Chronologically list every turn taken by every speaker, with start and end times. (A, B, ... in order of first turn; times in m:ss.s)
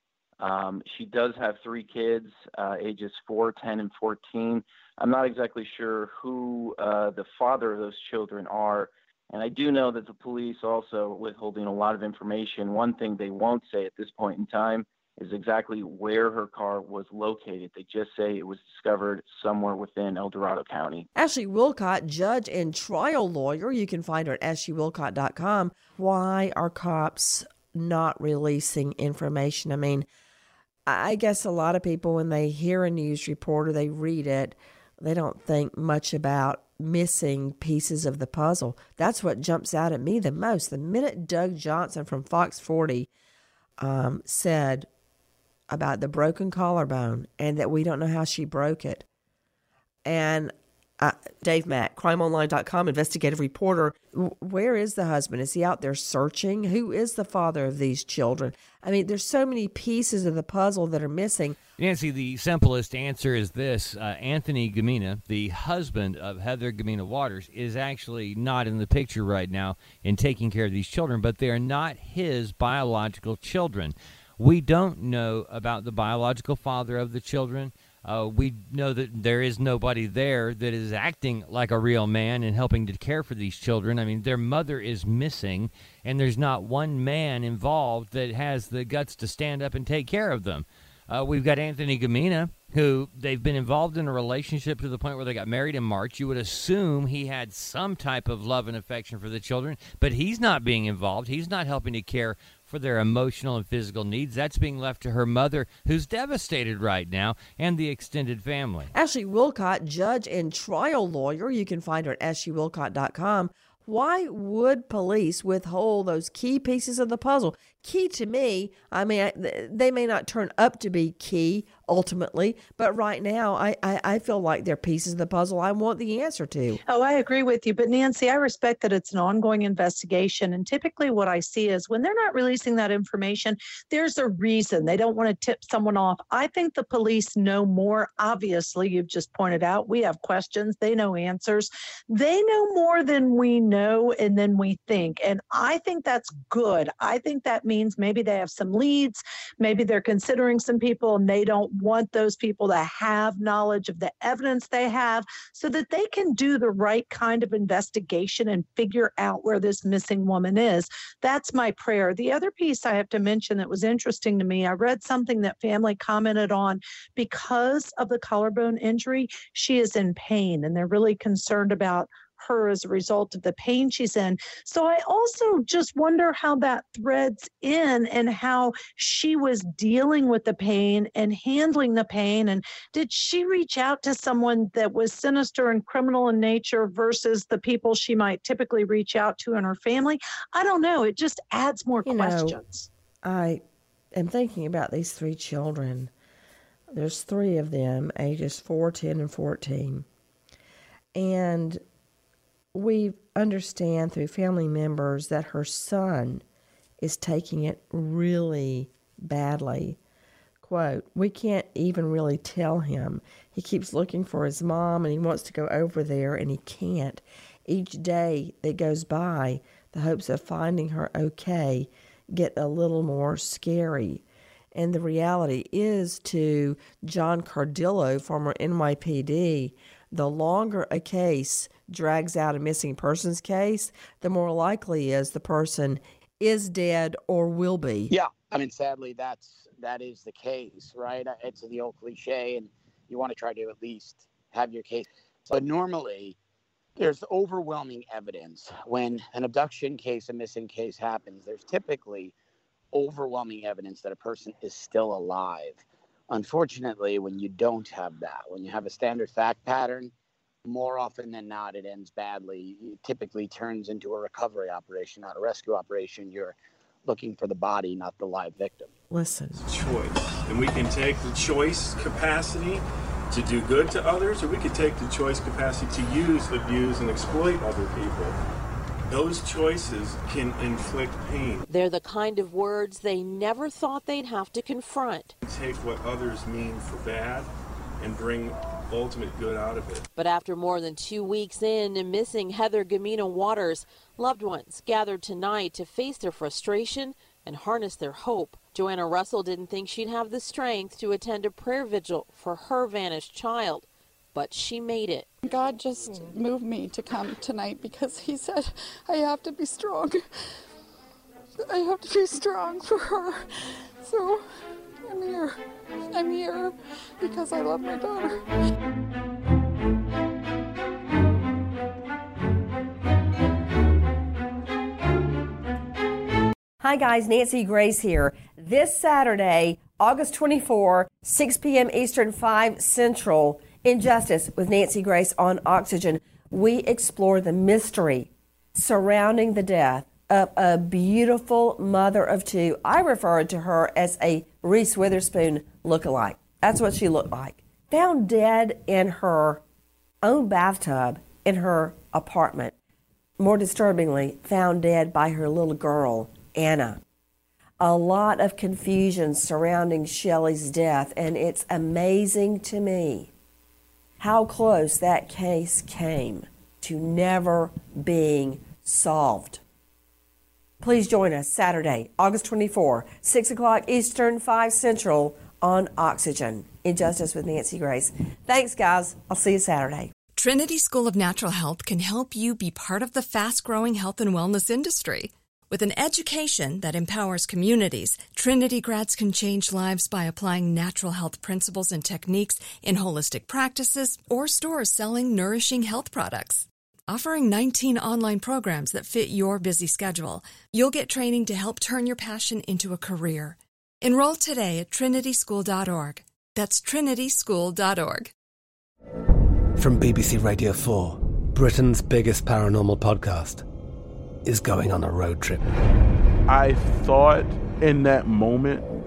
0:00.4-0:21.1 A
0:21.1-0:30.1 B
0:30.9-0:43.1 B
0:43.8-0:44.9 B
0:45.7-0:49.0 B
0:50.0-1:01.6 B
1:01.8-1:48.9 C
1:48.9-2:06.8 B
2:06.9-3:12.9 D
3:12.0-3:12.6 B
3:13.2-3:13.6 B
3:14.1-3:16.1 B
3:16.9-3:20.0 B
3:21.1-3:21.8 B
3:22.7-3:26.4 B
3:27.0-3:30.0 B
3:30.6-3:44.2 B
3:44.7-3:58.1 B
3:58.1-4:06.4 E
4:07.0-4:12.3 E
4:12.9-4:20.1 E
4:20.6-4:28.9 E
4:29.1-4:29.6 B
4:29.7-4:38.4 F
4:39.1-4:41.6 F
4:41.7-4:45.3 G
4:45.4-4:50.1 F
4:50.2-5:05.3 G
5:05.4-5:10.2 H
5:11.7-5:14.4 H
5:15.0-5:18.4 H
5:26.8-5:49.6 B
5:50.2-5:52.7 B
5:53.4-5:57.0 B
5:57.8-6:03.3 B
6:04.2-6:09.6 B
6:10.8-6:20.1 B
6:20.3-6:48.3 I
6:49.8-6:53.6 J
6:54.4-6:55.6 J
6:56.5-6:58.8 K